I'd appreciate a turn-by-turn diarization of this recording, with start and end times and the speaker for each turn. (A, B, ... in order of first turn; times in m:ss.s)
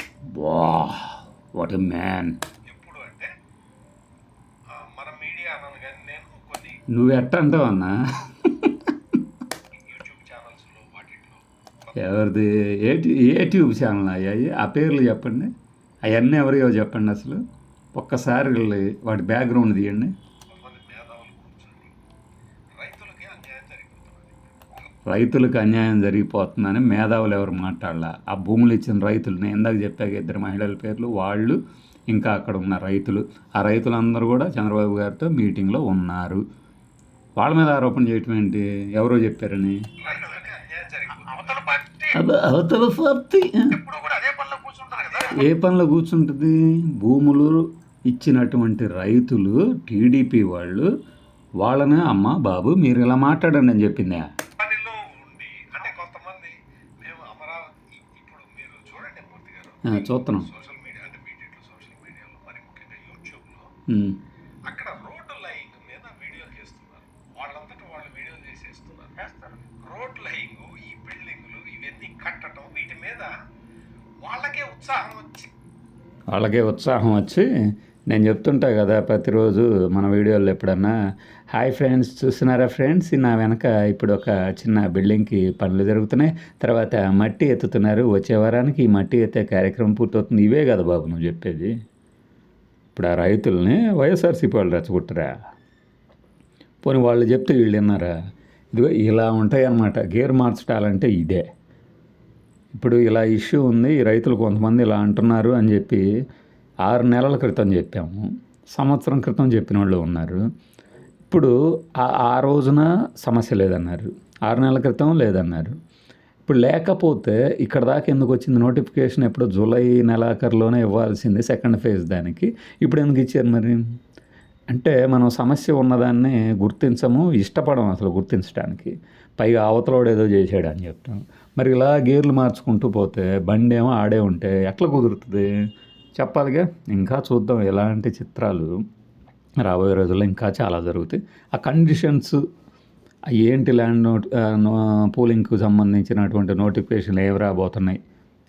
0:00.3-0:02.4 A
0:02.6-0:03.3 B
0:04.7-0:06.8 B
0:06.9-0:08.9 A
0:09.8-0:12.0 B
0:12.0-0:15.5 A
0:16.0-0:17.4 A
0:17.9-0:20.1 A
0:20.5-0:21.9 B
0:22.8-0:24.9 B
0:25.0-0:31.6 A
0:32.1-0:36.4 A
0:37.4-0:39.8 A
0:40.0-0:41.6 B
0:41.2-0:42.2 C
0:42.1-0:43.8 A
0:43.7-0:45.5 C
0:44.9-0:45.4 B
0:45.3-0:50.9 A
0:51.6-0:54.3 A
0:54.6-1:03.7 B
0:59.8-1:00.5 A
1:03.9-1:04.2 A
1:04.7-1:09.1 B
1:09.2-1:09.6 C
1:09.8-1:13.3 B
1:14.2-1:15.5 B
1:16.3-1:17.5 A
1:18.1-1:20.9 A
1:21.5-1:31.7 A
1:32.9-1:35.3 A
1:36.8-1:38.1 A
1:38.7-1:41.4 A
1:42.7-1:46.0 A
1:46.8-1:50.4 A
1:51.3-1:55.7 A
1:56.4-2:03.8 A
2:04.7-2:15.5 A
2:16.2-2:18.7 A
2:19.6-2:22.4 A
2:23.3-2:28.0 A